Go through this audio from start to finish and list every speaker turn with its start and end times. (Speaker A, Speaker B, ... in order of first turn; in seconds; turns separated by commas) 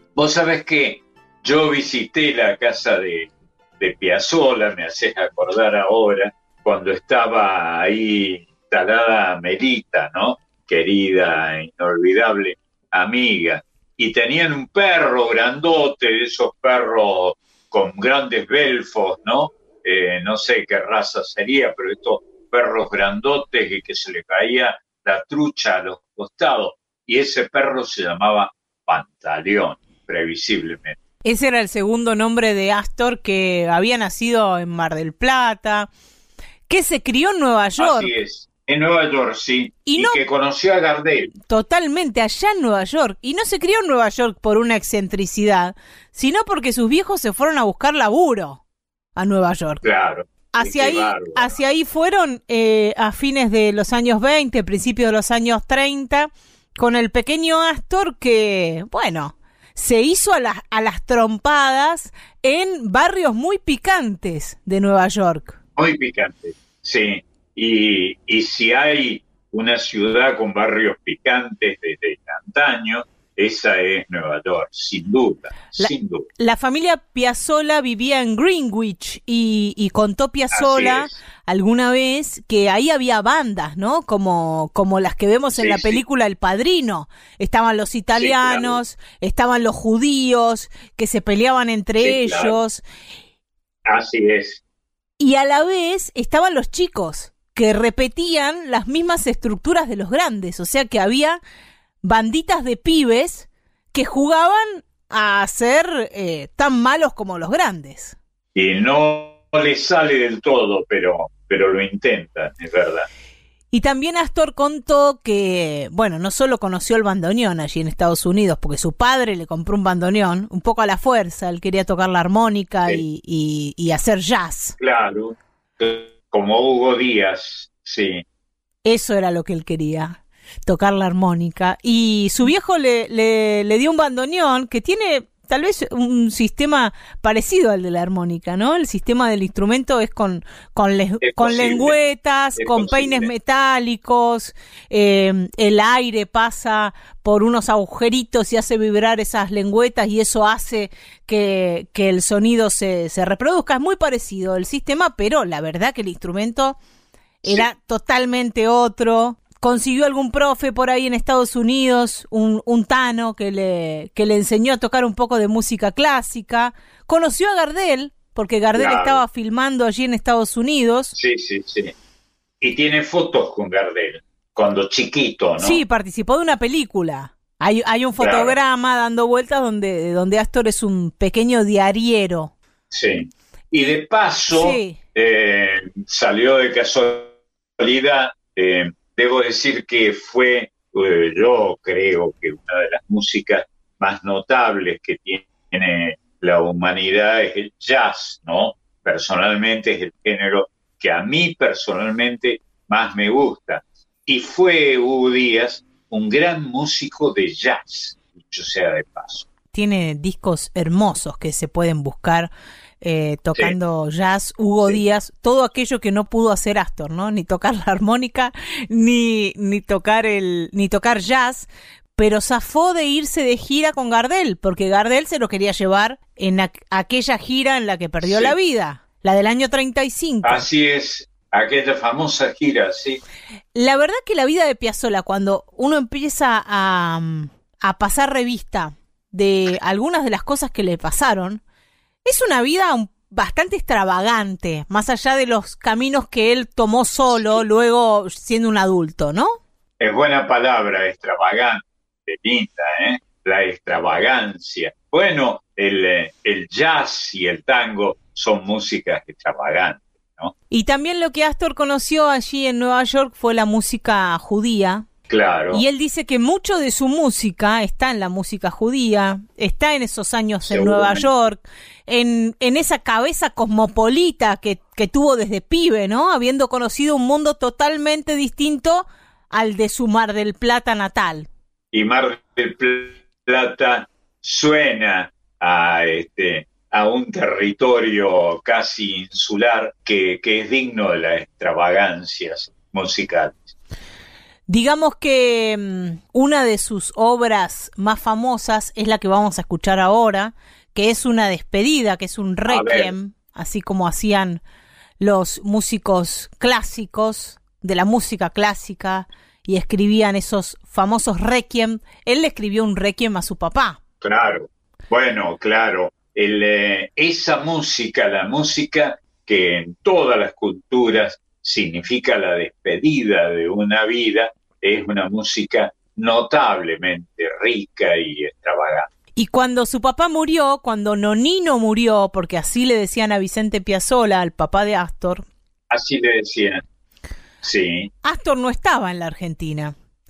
Speaker A: 0.1-31.0, Speaker B: 31.2-35.9, Speaker B: 36.7-38.1, Speaker A: 37.8-41.3, Speaker B: 39.9-40.2, Speaker B: 41.5-48.6, Speaker B: 49.1-49.8, Speaker A: 49.8-51.6, Speaker B: 50.5-65.6, Speaker A: 65.8-76.3, Speaker B: 75.8-92.8, Speaker A: 80.5-81.2, Speaker A: 85.6-86.0, Speaker A: 88.2-88.8, Speaker A: 92.0-92.6, Speaker A: 93.8-94.6, Speaker B: 95.2-101.4, Speaker B: 102.0-108.2, Speaker A: 108.5-113.1, Speaker B: 113.7-124.8, Speaker A: 124.8-128.2, Speaker B: 128.8-156.8, Speaker A: 141.2-141.9, Speaker A: 142.6-143.3, Speaker B: 157.4-171.1, Speaker A: 168.8-169.2, Speaker A: 171.1-171.9, Speaker A: 172.6-175.8, Speaker B: 175.6-182.5, Speaker A: 178.2-178.5, Speaker A: 182.9-209.4, Speaker B: 184.5-185.0, Speaker B: 209.7-212.5, Speaker B: 213.0-230.6, Speaker A: 228.2-228.5, Speaker A: 230.4-233.2, Speaker B: 233.8-241.6, Speaker B: 242.2-249.6, Speaker A: 247.3-247.6, Speaker A: 250.0-260.5, Speaker B: 260.7-265.1, Speaker A: 265.3-265.8, Speaker B: 265.7-281.5, Speaker A: 270.7-271.3, Speaker A: 281.9-293.7, Speaker B: 294.7-304.6, Speaker A: 302.7-303.1, Speaker B: 305.2-314.0, Speaker A: 314.2-329.1, Speaker B: 329.4-335.4, Speaker A: 335.9-336.8, Speaker A: 337.6-338.1, Speaker B: 338.2-339.9